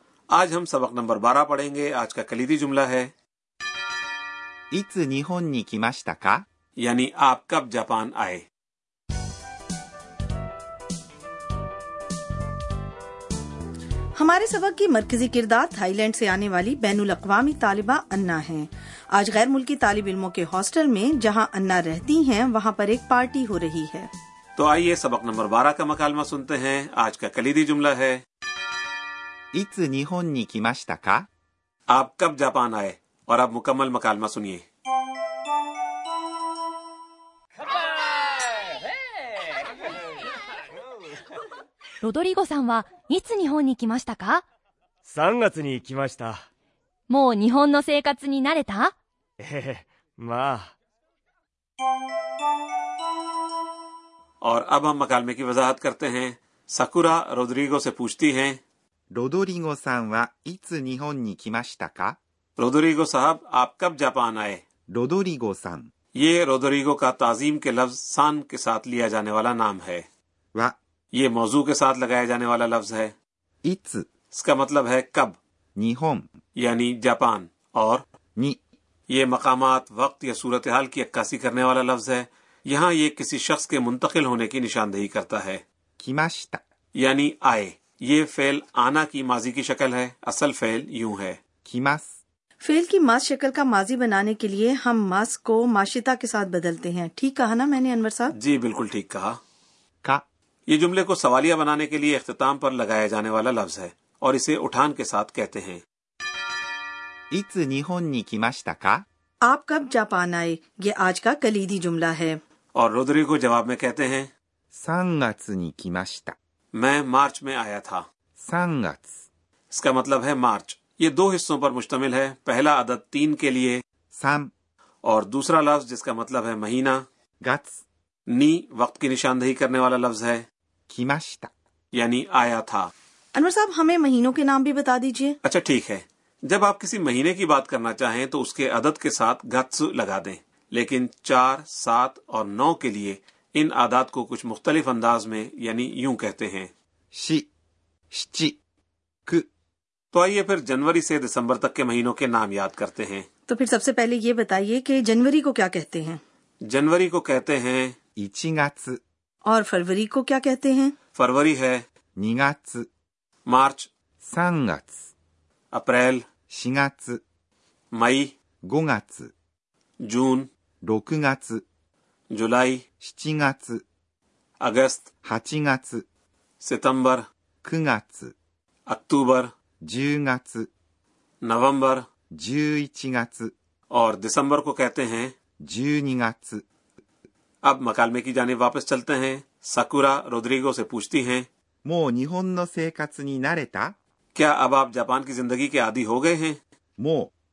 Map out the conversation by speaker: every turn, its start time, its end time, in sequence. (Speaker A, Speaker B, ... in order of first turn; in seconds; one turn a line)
Speaker A: 0.3-3.1
Speaker B: 4.7-6.4
Speaker A: 6.8-8.4
Speaker C: 14.2-24.1
Speaker A: 24.6-28.2
Speaker B: 29.5-31.2
Speaker A: 31.9-34.6
Speaker D: 42.0-44.4
Speaker E: 45.0-46.4
Speaker D: 47.1-48.9
Speaker E: 49.4-50.7
Speaker A: 54.4-58.6
Speaker B: 59.1-62.2
Speaker A: 62.6-64.6
Speaker B: 64.9-65.9
Speaker A: 66.2-70.0
Speaker A: 71.1-73.1
Speaker B: 73.6-74.0
Speaker A: 74.3-75.4
Speaker B: 75.8-76.3
Speaker A: 76.6-78.0
Speaker A: 79.1-85.6
Speaker B: 86.0-86.6
Speaker A: 87.0-91.4
Speaker B: 91.6-92.1
Speaker C: 92.6-98.3
Speaker A: 98.3-99.4
Speaker A: 100.7-105.8
Speaker B: 107.3-109.0
Speaker C: 109.4-112.4
Speaker A: 112.8-114.3
Speaker B: 114.7-116.3
Speaker A: 116.8-118.0
Speaker B: 118.4-119.1
Speaker A: 119.7-123.8
Speaker B: 124.1-124.5
Speaker A: 125.0-127.0
Speaker B: 127.4-127.8
Speaker A: 128.3-130.4
Speaker B: 130.9-131.5
Speaker A: 131.9-132.9
Speaker C: 133.3-135.4
Speaker A: 135.4-146.7
Speaker B: 147.1-147.5
Speaker B: 148.1-148.6
Speaker A: 150.1-153.2
Speaker C: 153.5-156.2
Speaker A: 156.7-158.0
Speaker B: 158.2-159.0
Speaker C: 159.4-160.9
Speaker A: 161.2-161.8
Speaker B: 162.2-162.8
Speaker A: 163.5-163.9
Speaker B: 164.2-165.0
Speaker A: 165.7-166.2
Speaker B: 166.5-167.2
Speaker A: 167.9-168.3
Speaker B: 168.7-169.3
Speaker A: 170.0-170.5
Speaker B: 170.8-171.6
Speaker A: 172.3-172.8
Speaker B: 173.0-173.8
Speaker A: 174.6-175.1
Speaker B: 175.2-176.0
Speaker A: 176.6-177.2
Speaker B: 177.6-178.3
Speaker A: 178.9-179.5
Speaker B: 179.8-180.7
Speaker A: 181.4-182.1
Speaker B: 182.3-183.5
Speaker A: 183.9-185.3
Speaker B: 185.6-186.6
Speaker A: 187.6-191.5
Speaker B: 191.8-193.9
Speaker A: 194.3-196.6
Speaker B: 197.0-197.3